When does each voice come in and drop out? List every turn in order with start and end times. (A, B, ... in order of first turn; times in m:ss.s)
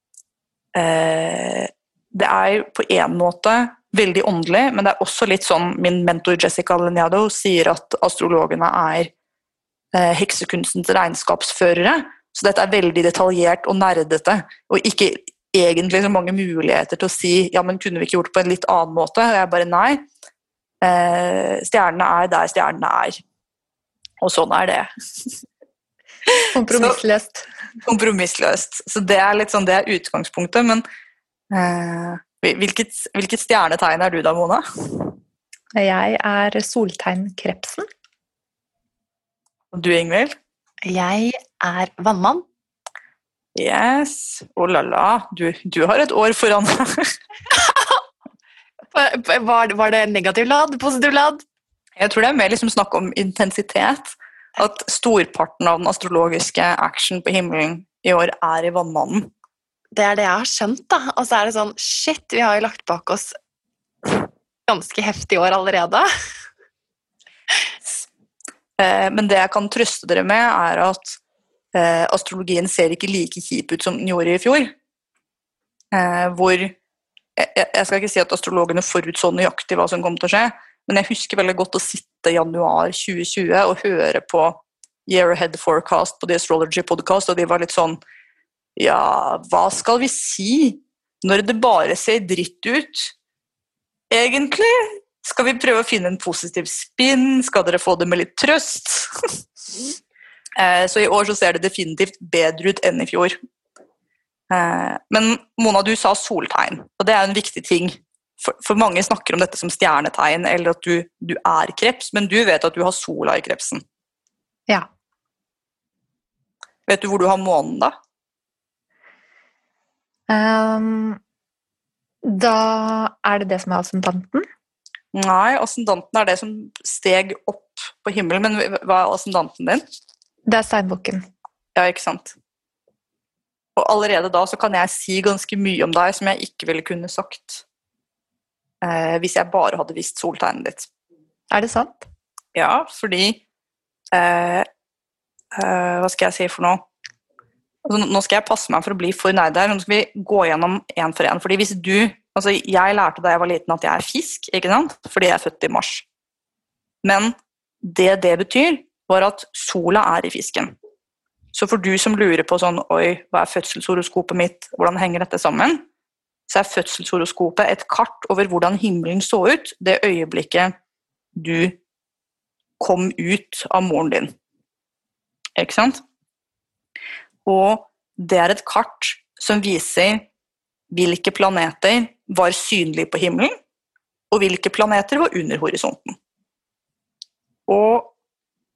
0:00.7-0:09.1 A
0:09.9-0:20.0 A
0:20.8-0:23.2 A
0:24.2-0:24.9 A
0:26.2-0:27.0 A
0:26.5-0:27.5 B
0:27.8-0:30.8 A
0:31.5-0:35.1 A
0:35.8-0:37.9 B
0:39.7-0:40.4 A
0:40.8-0:42.4 C
0:43.5-0:47.1 A
0:47.5-0:47.9 C
0:48.9-0:51.4 C
0:52.0-0:59.3 A
0:59.9-1:03.4 C
1:04.0-1:06.0 C
1:08.8-1:11.2 A
1:11.7-1:14.7 A
1:15.9-1:16.8 A
1:17.4-1:28.0 A
1:28.8-1:33.1 A
1:34.1-1:39.4 A
1:40.6-1:43.4 A
1:44.5-1:53.8 A
1:56.9-1:57.9 A
2:00.3-2:01.2 B
2:02.2-2:04.4 B
2:05.1-2:09.8 A
2:10.5-2:11.2 B
2:11.7-2:12.4 A
2:13.8-2:17.6 A
2:18.8-2:20.9 A
2:21.5-2:22.1 B
2:22.5-2:23.4 A
2:24.1-2:24.6 A
2:25.5-2:26.8 A
2:27.8-2:36.0 A
2:37.0-2:40.7 A
2:41.5-2:45.8 A
2:46.5-2:50.7 A
2:51.3-2:51.8 A
2:52.8-2:54.3 A
2:55.6-2:56.0 A
2:57.4-3:00.3 A
3:00.9-3:03.5 A
3:04.3-3:06.2 A
3:07.7-3:08.1 A